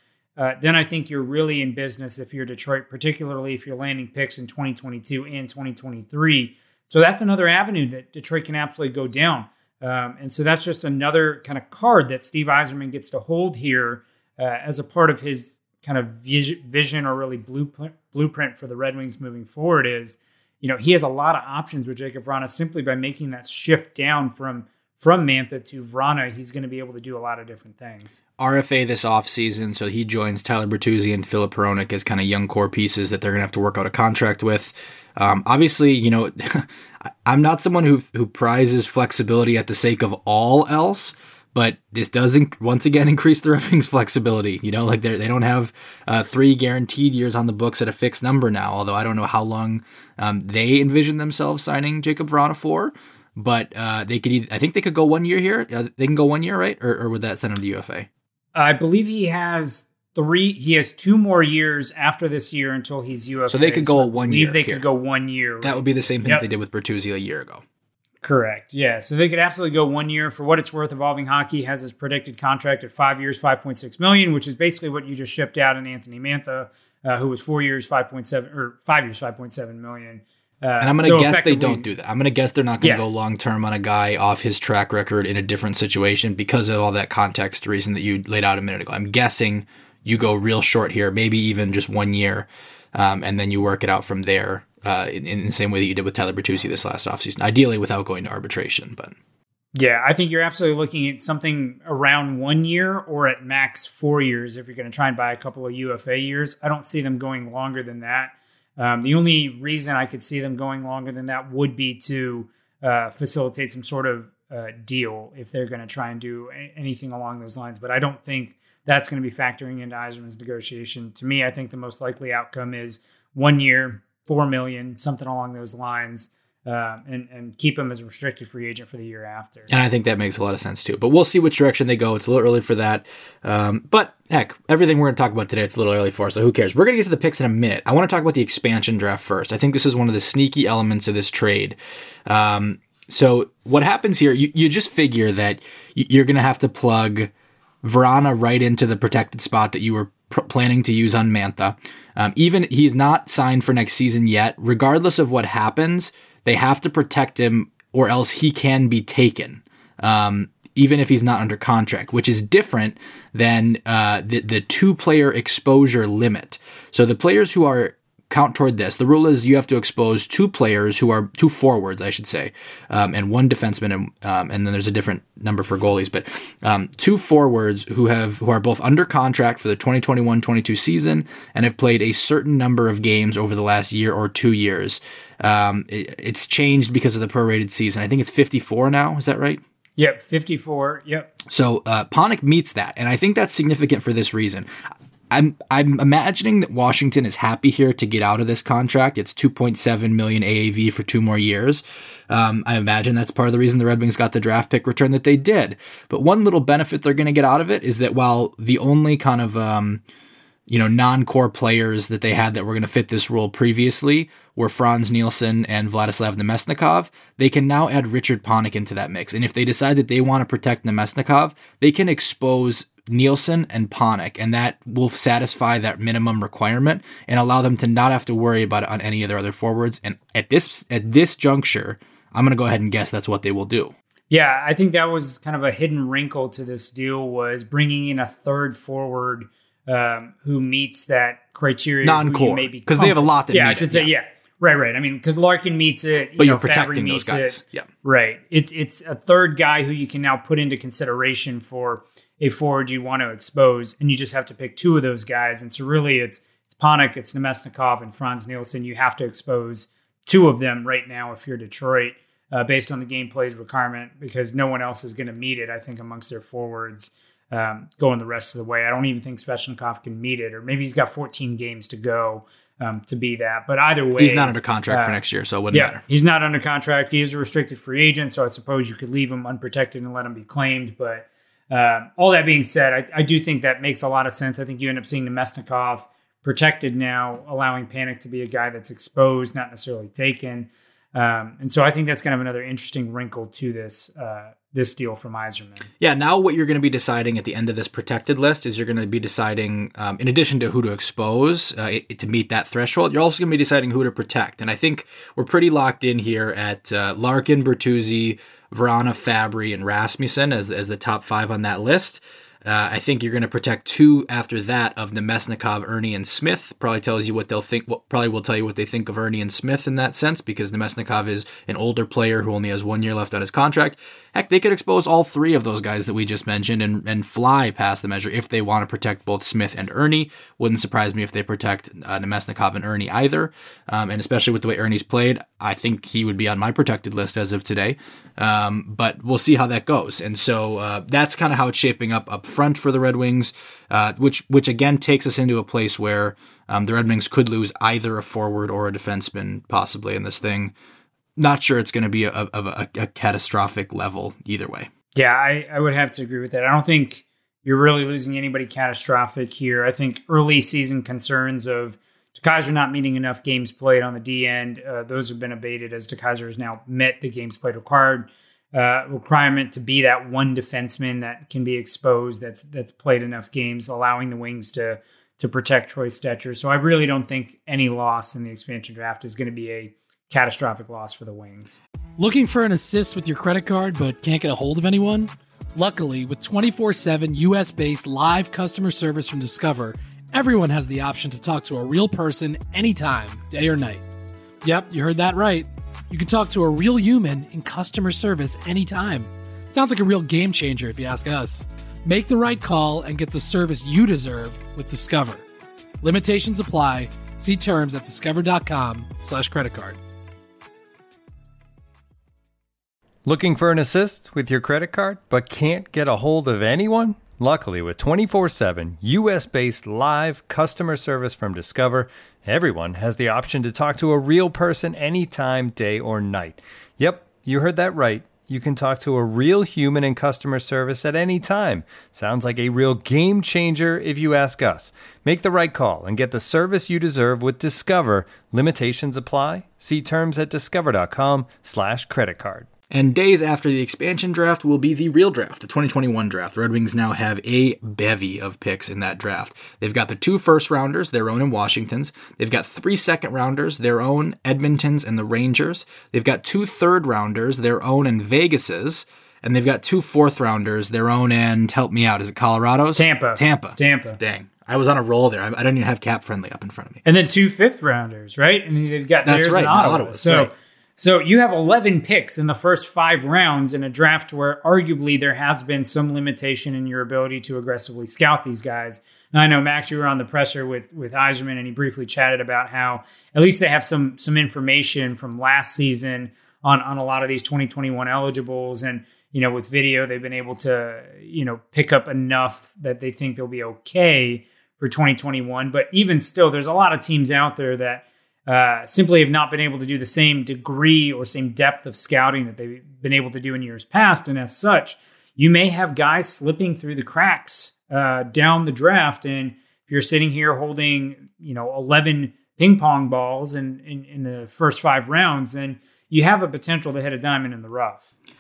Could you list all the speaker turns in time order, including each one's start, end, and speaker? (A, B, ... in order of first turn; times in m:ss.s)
0:00.4-0:28.2 A
0:28.4-0:58.1 B
0:58.6-1:06.4 A
1:03.5-1:04.8 B
1:05.6-1:07.6 B
1:08.2-1:21.9 A
1:20.8-1:39.2 B
1:39.7-2:09.7 A
2:09.7-2:21.8 B
2:22.3-2:27.3 B
2:27.8-3:09.6 B
3:10.0-3:11.3 A
3:11.5-3:14.7 B
3:15.3-3:30.0 B
3:30.7-3:53.9 B
3:54.3-4:35.2 A
4:02.0-4:04.1 B
4:06.4-4:07.9 B
4:34.2-4:36.0 B
4:35.7-4:55.9 A
4:56.0-5:50.7 B
5:51.4-5:54.9 B
5:55.2-6:21.8 A
6:22.2-6:34.0 C
6:34.6-6:45.4 C
6:46.0-6:50.0 C
6:53.2-7:22.7 D
7:22.9-7:47.0 B
7:43.0-7:44.2 A
7:47.0-8:38.1 A
7:49.2-7:50.5 B